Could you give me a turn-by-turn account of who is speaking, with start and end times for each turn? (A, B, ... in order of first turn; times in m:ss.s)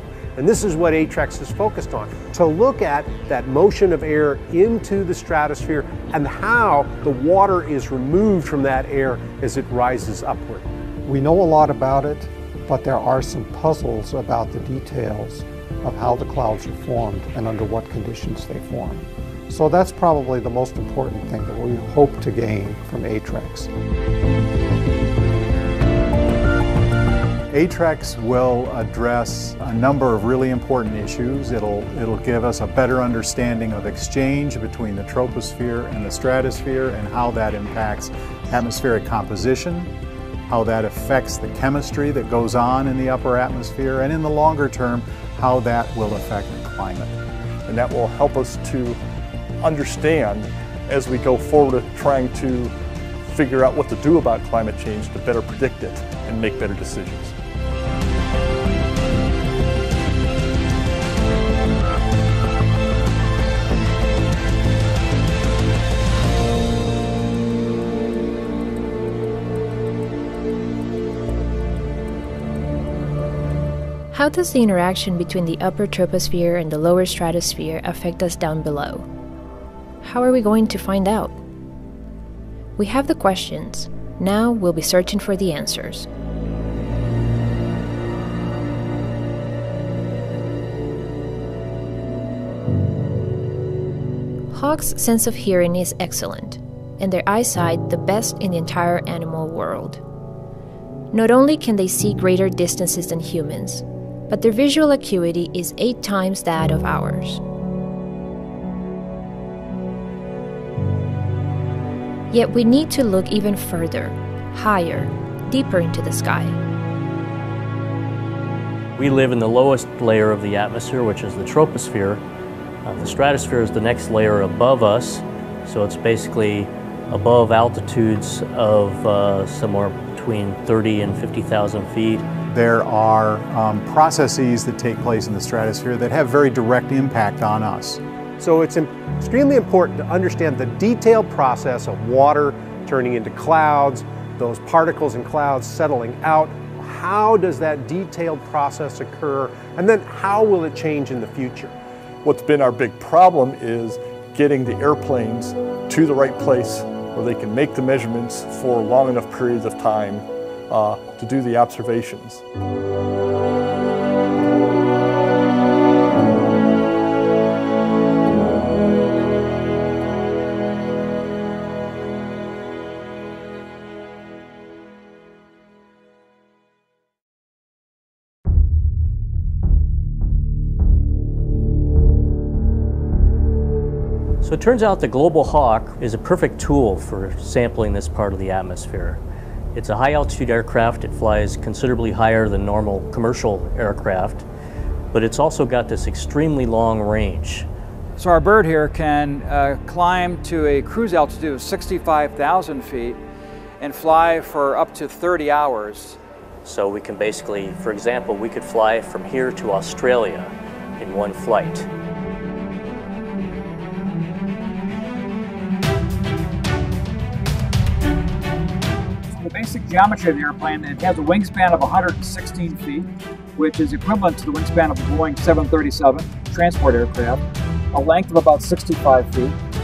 0:00.4-0:10.7 A
0:11.0-0:23.7 B
0:27.5-0:39.9 C
0:40.5-0:47.2 C
0:47.7-0:49.0 D
0:49.6-0:57.4 D
1:14.1-1:19.1 E
1:20.0-1:21.4 E
1:22.8-1:26.1 E
1:34.5-1:40.0 E
1:41.1-1:47.4 E
1:52.3-1:56.6 E
1:59.0-2:02.2 F
2:02.8-2:12.3 F
2:12.5-2:18.0 C
2:18.4-2:31.7 A
2:32.2-2:42.4 D
3:04.4-3:09.2 F
3:09.7-3:14.5 F
3:15.1-3:17.7 F
3:18.2-3:23.2 G
3:23.8-3:26.2 G
3:26.6-3:31.9 F
3:39.3-3:43.1 G
3:43.6-3:47.4 G
3:47.9-3:49.6 G